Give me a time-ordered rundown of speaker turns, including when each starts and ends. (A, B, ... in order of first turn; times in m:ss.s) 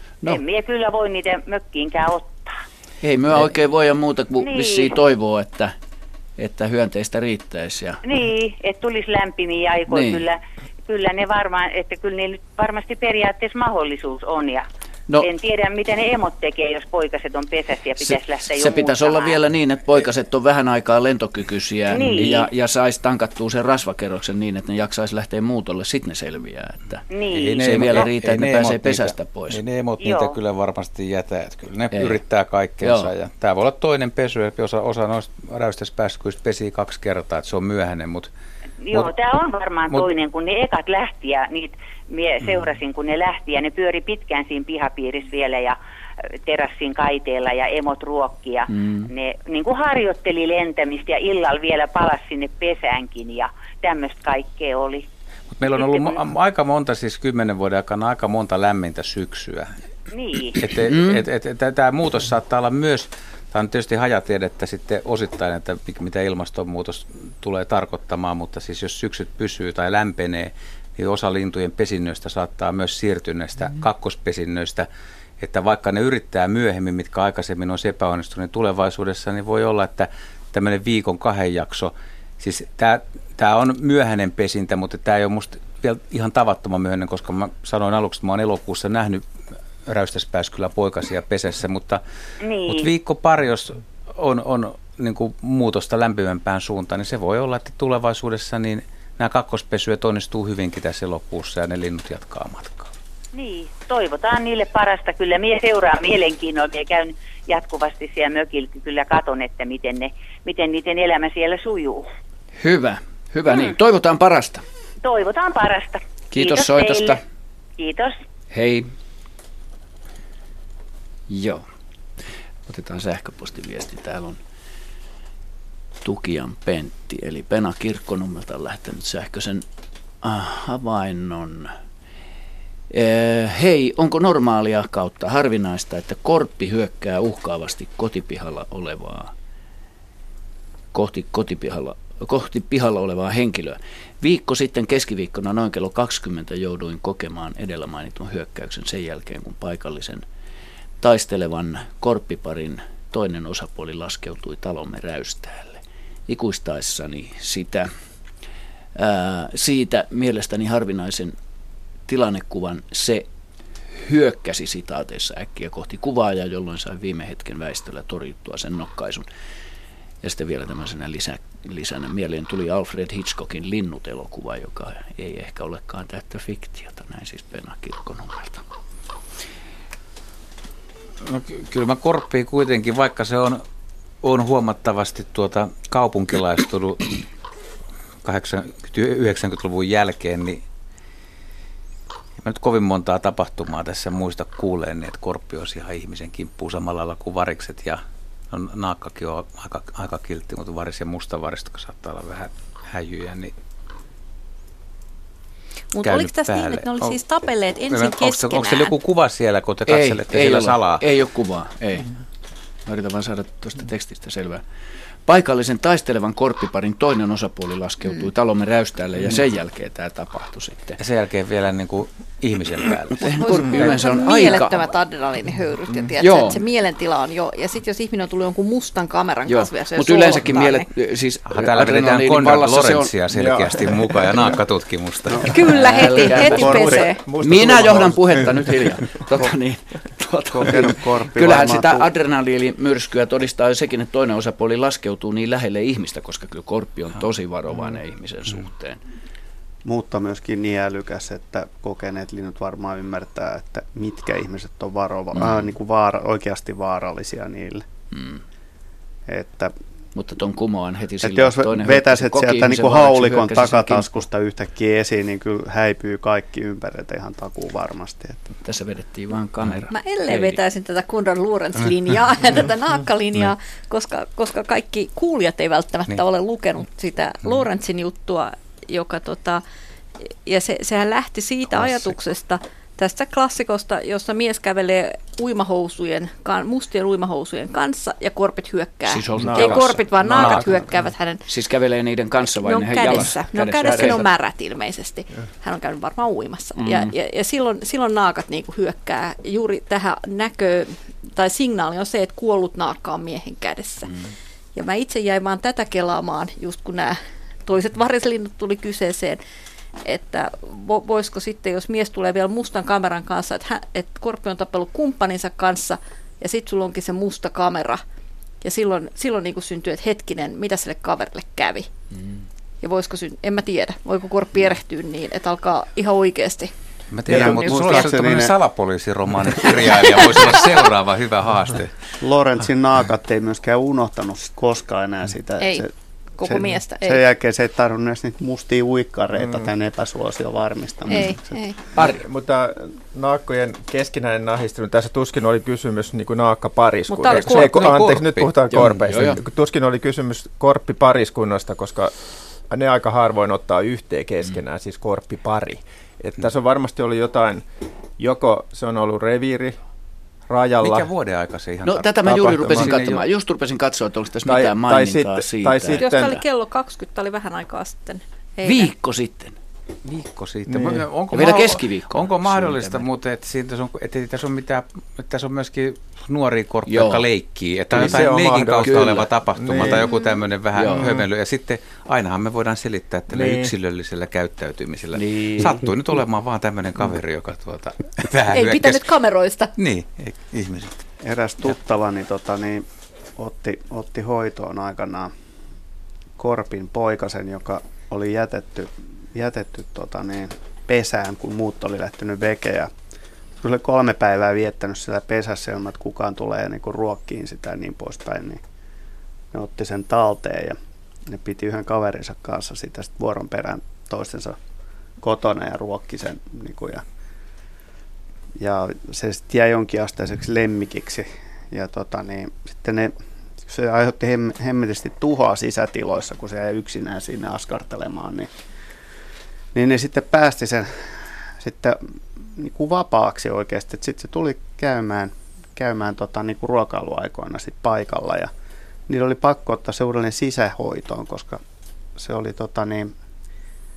0:00.2-0:02.5 A
0:03.0-0:05.7 B
0:04.4-0:05.0 A
0:06.4-0:08.0 B
0:08.0-0:14.6 A
0:09.9-0:10.2 B
0:15.2-0:19.4 A
0:18.0-0:29.6 B
0:21.9-0:22.5 A
0:27.1-0:28.0 A
0:27.3-0:38.3 C
0:30.0-0:30.4 A
0:31.9-0:32.2 B
0:32.8-0:33.1 B
0:38.8-0:45.8 A
0:46.4-0:55.1 A
0:48.7-0:49.1 B
0:55.6-0:59.7 C
0:55.7-0:56.2 A
1:00.1-1:00.6 A
1:00.6-1:14.9 C
1:00.8-1:01.2 B
1:15.4-1:29.2 C
1:29.8-1:32.0 C
1:32.4-1:32.9 A
1:32.6-1:42.9 C
1:43.3-1:52.1 A
1:52.6-1:54.6 B
1:55.0-1:57.2 A
1:56.3-1:57.2 B
1:57.8-1:58.2 A
1:58.5-1:58.9 B
2:01.3-2:01.7 B
2:02.7-2:04.4 B
2:06.0-2:09.6 B
2:10.2-2:11.7 B
2:12.9-2:19.3 B
2:20.9-2:30.2 B
2:31.0-2:37.9 B
2:39.0-2:41.4 B
2:42.1-2:43.3 B
2:43.9-2:49.3 B
2:50.2-2:58.6 B
3:01.2-3:03.6 C
3:04.2-3:07.2 C
3:08.2-3:10.6 C
3:12.4-3:23.5 C
3:25.9-3:28.9 D
3:26.0-3:27.2 C
3:27.9-3:31.0 C
3:29.9-3:32.1 B
3:32.8-3:34.6 B
3:35.2-3:41.0 B
3:41.0-3:43.9 C
3:43.2-3:44.9 B
3:43.3-3:50.9 D
3:46.2-3:46.6 B
3:49.5-3:53.1 B
3:51.5-3:55.5 C
3:53.3-3:54.5 E
3:55.5-3:57.2 D
3:55.6-4:09.0 B
3:56.1-3:58.8 E
3:56.4-3:57.2 F
4:00.5-4:02.1 F
4:09.8-4:17.8 F
4:15.4-4:15.7 B
4:18.1-4:18.4 B
4:19.3-4:19.7 F
4:20.1-4:24.2 B
4:21.2-4:28.4 F
4:28.6-4:30.6 B
4:29.9-4:39.6 D
4:40.4-4:51.4 D
4:49.1-4:50.5 B
4:49.4-4:51.1 E
4:50.3-4:50.6 C
4:51.5-4:54.3 B
4:52.4-5:04.1 D
4:53.8-4:54.2 E
4:56.8-4:57.1 B
5:04.0-5:04.3 B
5:04.7-5:09.4 D
5:10.0-5:18.0 D
5:18.6-5:21.9 D
5:22.1-5:22.4 B
5:22.8-5:26.7 D
5:27.1-5:32.0 C
5:27.3-5:28.1 D
5:27.3-5:28.5 F
5:29.6-5:30.8 D
5:32.2-5:35.9 F
5:35.6-5:35.8 D
5:36.4-5:37.3 D
5:36.4-5:41.6 F
5:39.4-5:39.6 E
5:41.1-5:41.8 D
5:41.9-5:42.2 B
5:42.0-5:52.1 E
5:47.1-5:47.8 D
5:47.3-5:48.5 C
5:48.7-5:49.4 B
5:52.7-5:57.6 E
5:58.2-5:59.8 E
6:00.5-6:01.1 E
6:00.8-6:03.2 C
6:01.8-6:06.0 B
6:02.2-6:03.0 E
6:04.4-6:06.4 E
6:06.0-6:08.9 D
6:08.6-6:09.6 B
6:10.0-6:29.1 C
6:10.7-6:11.1 E
6:11.3-6:13.0 B
6:16.9-6:17.2 B
6:17.9-6:20.1 E
6:18.0-6:19.3 B
6:20.7-6:21.1 B
6:21.0-6:21.2 E
6:23.3-6:23.7 E
6:25.1-6:25.8 B
6:28.5-6:29.7 D
6:29.8-6:31.0 C
6:31.2-6:32.8 F
6:33.4-6:35.3 F
6:36.4-6:42.9 F
6:43.6-6:48.6 F
6:49.5-6:54.6 F
6:55.2-6:57.0 F
6:58.6-7:03.2 F
7:03.7-7:08.5 F
7:09.7-7:12.0 F
7:12.6-7:18.5 F
7:19.1-7:21.6 F
7:22.2-7:23.1 F